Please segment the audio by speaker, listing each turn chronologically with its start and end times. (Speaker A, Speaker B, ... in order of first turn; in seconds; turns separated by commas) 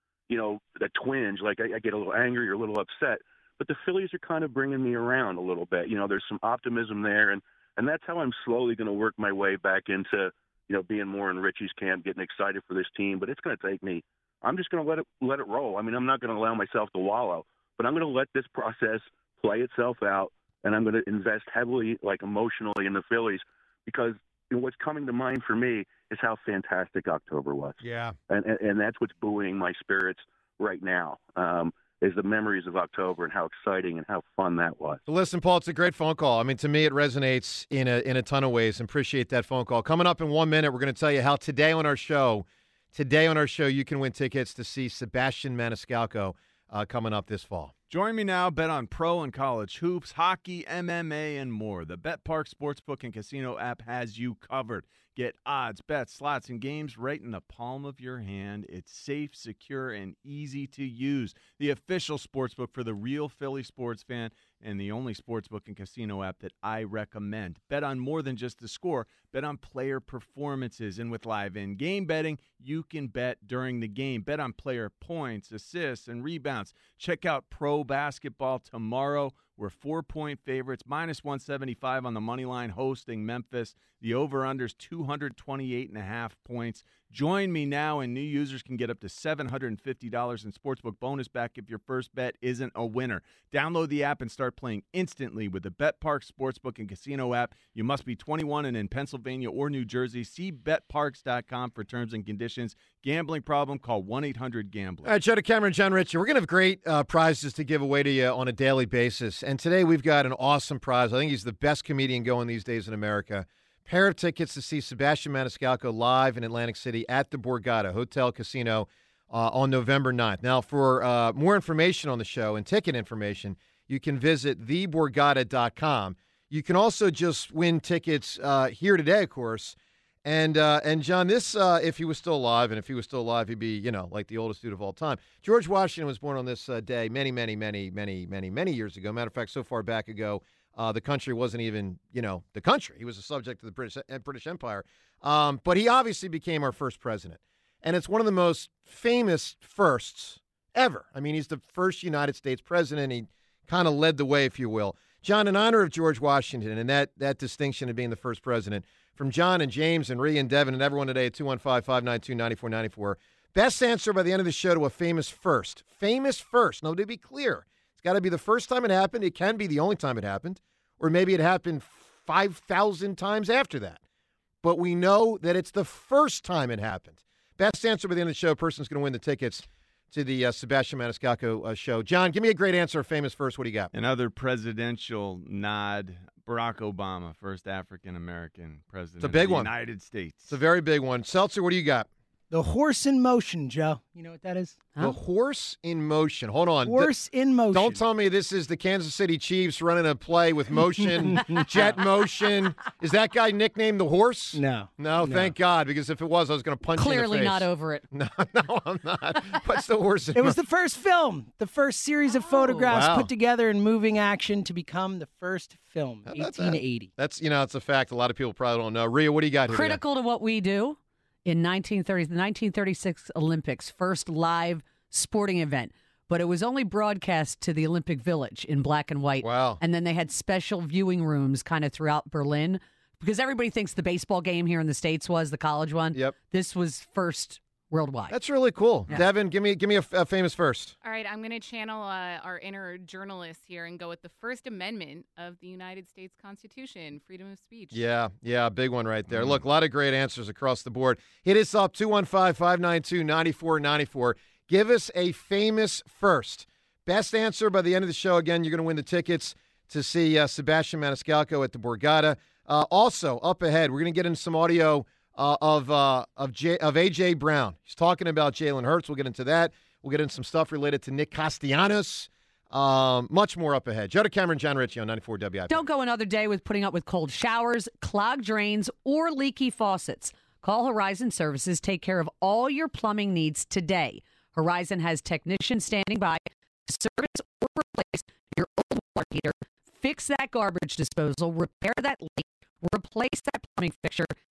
Speaker A: 0.3-35.0, Speaker B: 27.8-28.1, Speaker B: 35.1-47.7, Speaker C: 47.9-105.1, Speaker B: 105.0-174.0, Speaker B: 174.6-183.9, Speaker C: 183.9-190.5, Speaker B: 189.2-189.7, Speaker B: 190.5-192.1, Speaker D: 192.5-194.9, Speaker B: 195.0-197.1, Speaker D: 196.8-198.0, Speaker B: 197.7-210.6, Speaker D: 201.0-201.8, Speaker D: 204.5-205.5, Speaker E: 206.9-208.0, Speaker D: 210.3-217.1, Speaker B: 212.9-213.3, Speaker B: 216.3-220.0, Speaker E: 219.7-238.4, Speaker B: 229.4-229.8, Speaker B: 238.3-240.9, Speaker F: 241.0-248.0, Speaker B: 247.9-275.8, Speaker C: 249.3-249.6, Speaker E: 275.7-294.3